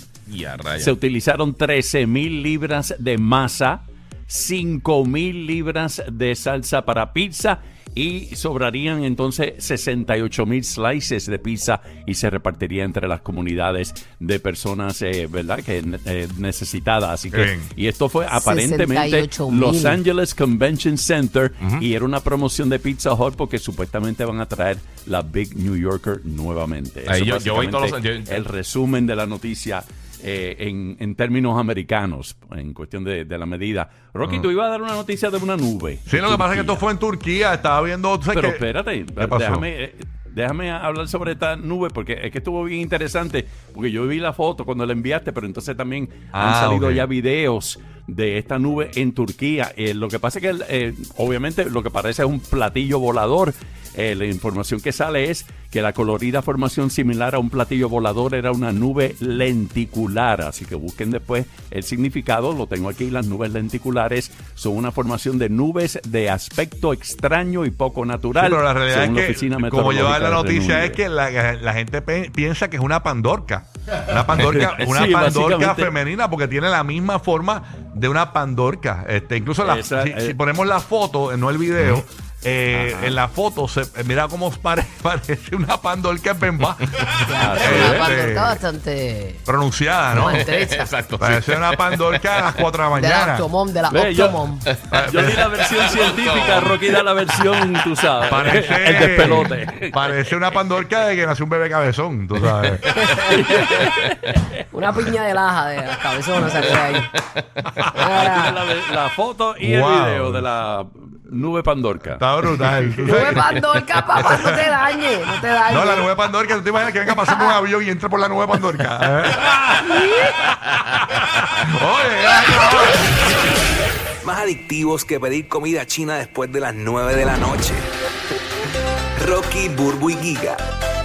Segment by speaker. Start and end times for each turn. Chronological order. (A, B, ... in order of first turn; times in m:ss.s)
0:00.3-0:00.9 A
0:00.8-0:36.8 B
0:17.3-0:17.7 C
0:18.3-0:20.0 D
0:27.1-0:28.4 A
0:36.0-0:38.6 C
0:38.3-1:11.0 B
0:39.2-0:39.6 C
0:46.3-0:47.0 C
1:08.3-1:28.6 C
1:14.4-1:15.9 B
1:19.6-1:20.3 B
1:22.7-1:23.2 B
1:27.2-1:29.4 D
1:27.4-1:28.1 B
1:29.5-1:30.4 C
1:30.2-1:30.9 D
1:30.4-1:32.6 A
1:31.2-1:33.5 C
1:32.9-1:34.6 D
1:33.9-1:34.4 B
1:34.9-1:35.4 C
1:35.0-1:39.9 B
1:35.6-1:36.9 A
1:38.3-1:42.9 C
1:42.9-1:43.1 A
1:43.1-1:44.4 B
1:44.7-1:47.1 D
1:47.9-1:48.6 D
1:47.9-1:52.2 B
1:49.6-1:50.5 C
1:52.2-1:54.7 C
1:53.0-1:56.1 D
1:55.7-2:03.1 C
1:57.1-1:57.6 D
2:04.2-2:07.9 E
2:09.2-2:10.6 E